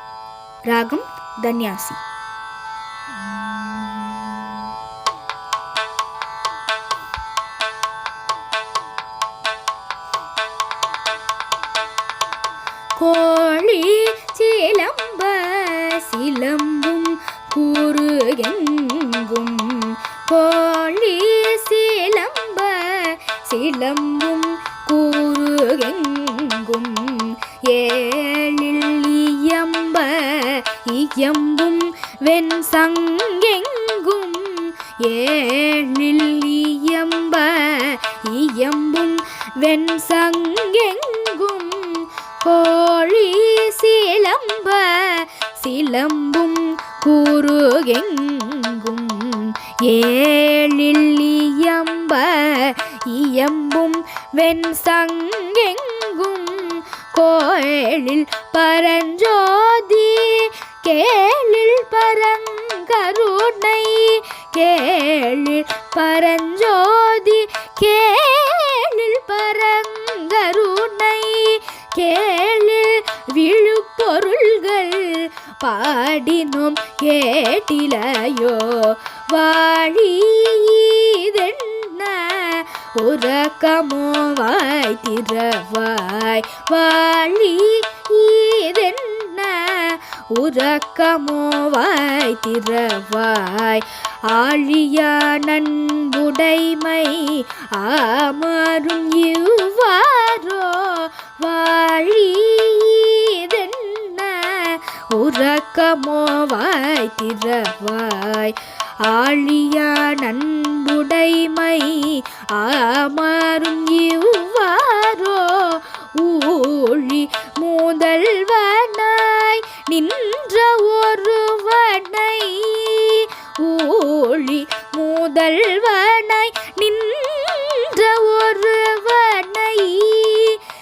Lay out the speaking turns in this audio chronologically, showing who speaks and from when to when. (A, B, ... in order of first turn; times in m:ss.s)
0:00.7-0:02.0 A
0:13.0-2:10.6 A